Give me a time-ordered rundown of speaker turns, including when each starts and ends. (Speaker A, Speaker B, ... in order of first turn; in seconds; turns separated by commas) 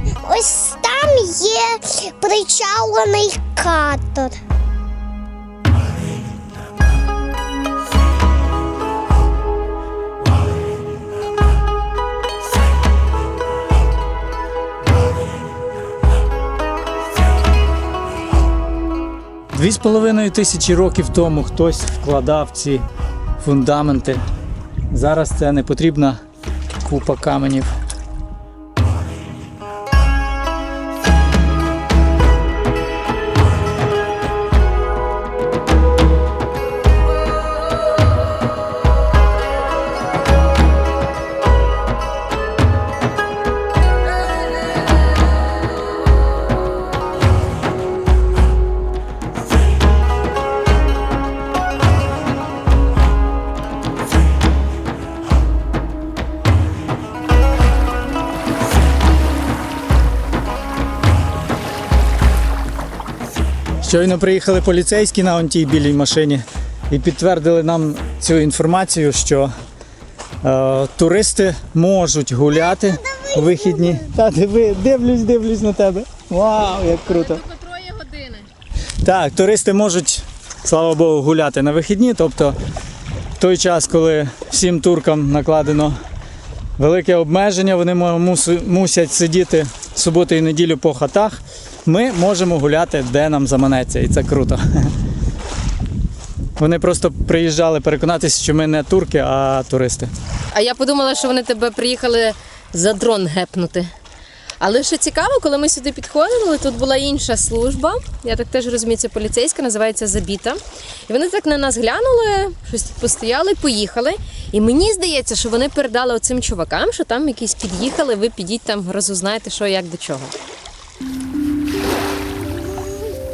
Speaker A: 0.2-4.4, Speaker B: 19.5-22.8, Speaker B: 23.4-24.2, Speaker B: 24.9-26.2, Speaker B: 26.8-27.7, Speaker B: 63.8-69.5, Speaker B: 70.4-77.4, Speaker A: 73.0-74.0, Speaker C: 77.0-78.5, Speaker B: 79.0-82.6, Speaker B: 83.4-86.0, Speaker B: 86.8-94.9, Speaker B: 96.6-100.1, Speaker C: 100.5-103.9, Speaker C: 104.6-120.3